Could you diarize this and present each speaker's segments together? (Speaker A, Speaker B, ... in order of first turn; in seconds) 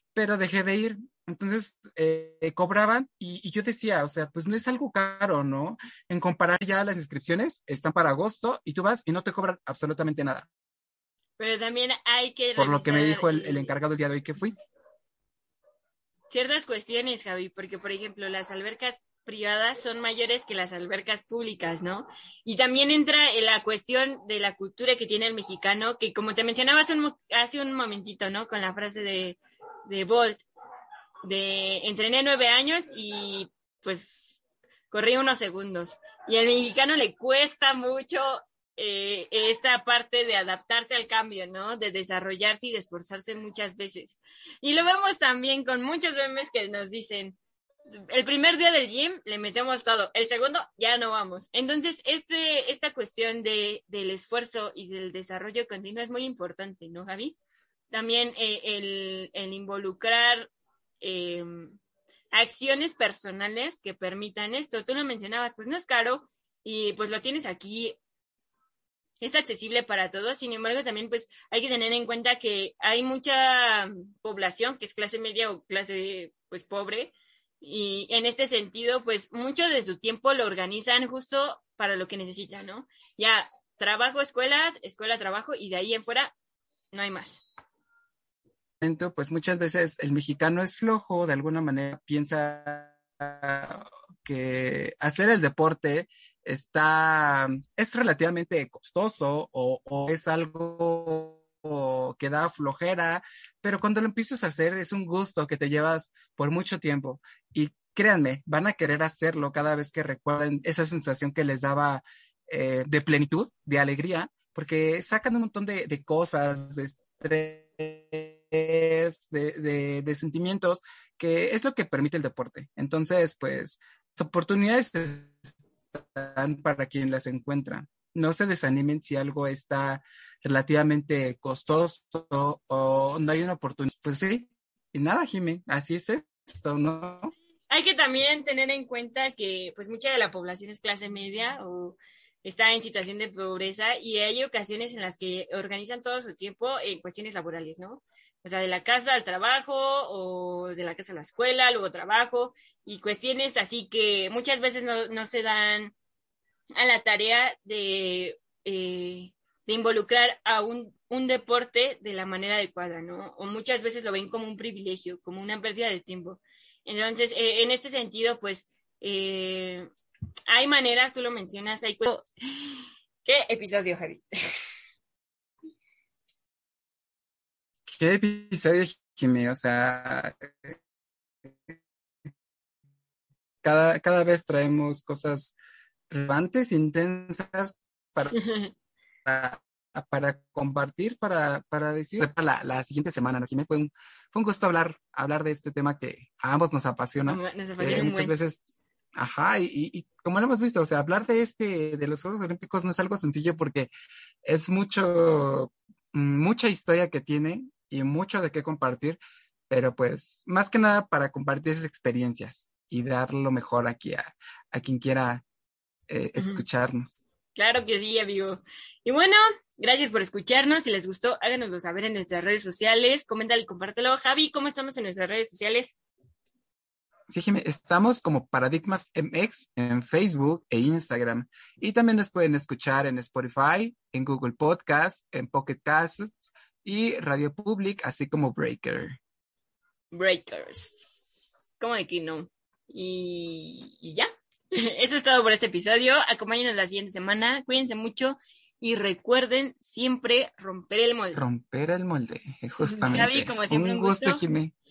Speaker A: 0.1-10.5, 12.6-14.5, 88.8-137.3, 177.9-180.8, 183.6-185.5, 186.1-188.4, 189.2-203.9, 204.4-215.4, 216.1-217.2, 227.3-239.2, 251.3-254.7
Speaker B: 11.4-13.8, 16.3-30.4, 31.2-47.4, 48.1-57.4, 57.9-61.8, 62.3-68.0, 69.2-86.3, 86.9-87.4, 137.7-155.9, 156.8-169.9, 170.5-174.6, 188.2-188.7, 197.2-198.3, 216.4-216.6, 217.5-225.9, 240.1-251.4, 252.8-254.4